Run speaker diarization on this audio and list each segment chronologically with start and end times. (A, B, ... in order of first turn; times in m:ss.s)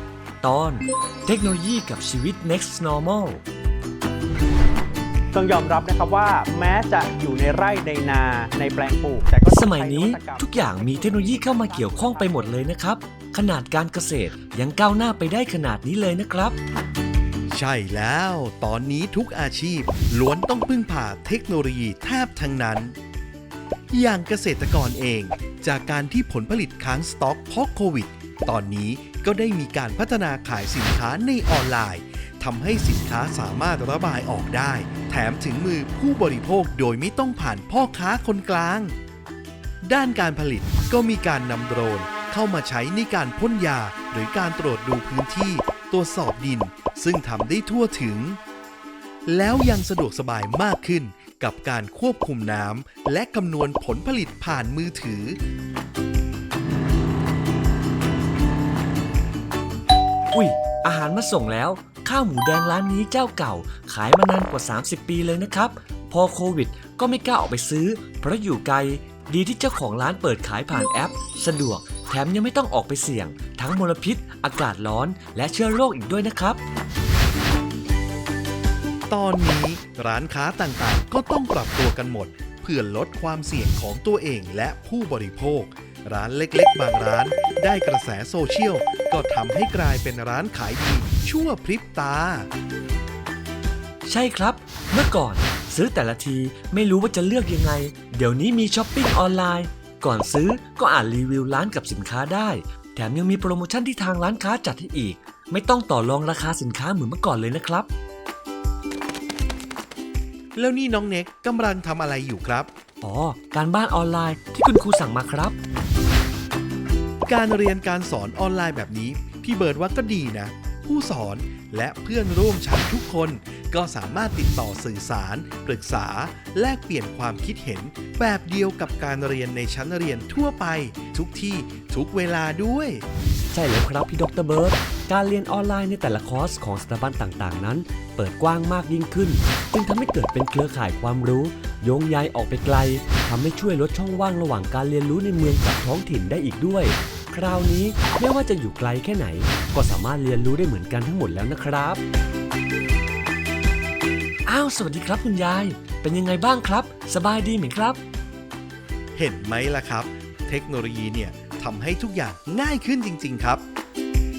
0:00.4-0:03.4 A
0:05.3-0:12.7 B
0:09.5-0:16.6 A
0:17.5-0:23.0 C
0:23.9-0:39.0 C
0:39.8-0:48.4 C
0:49.3-0:55.4 C
1:00.3-1:16.6 A
1:19.1-1:32.5 C
1:34.0-1:47.9 A
1:50.6-1:52.7 C
1:53.0-1:55.6 A
1:57.3-2:13.0 C
2:13.5-2:32.0 A
2:34.5-2:38.0 A
2:39.2-2:43.6 C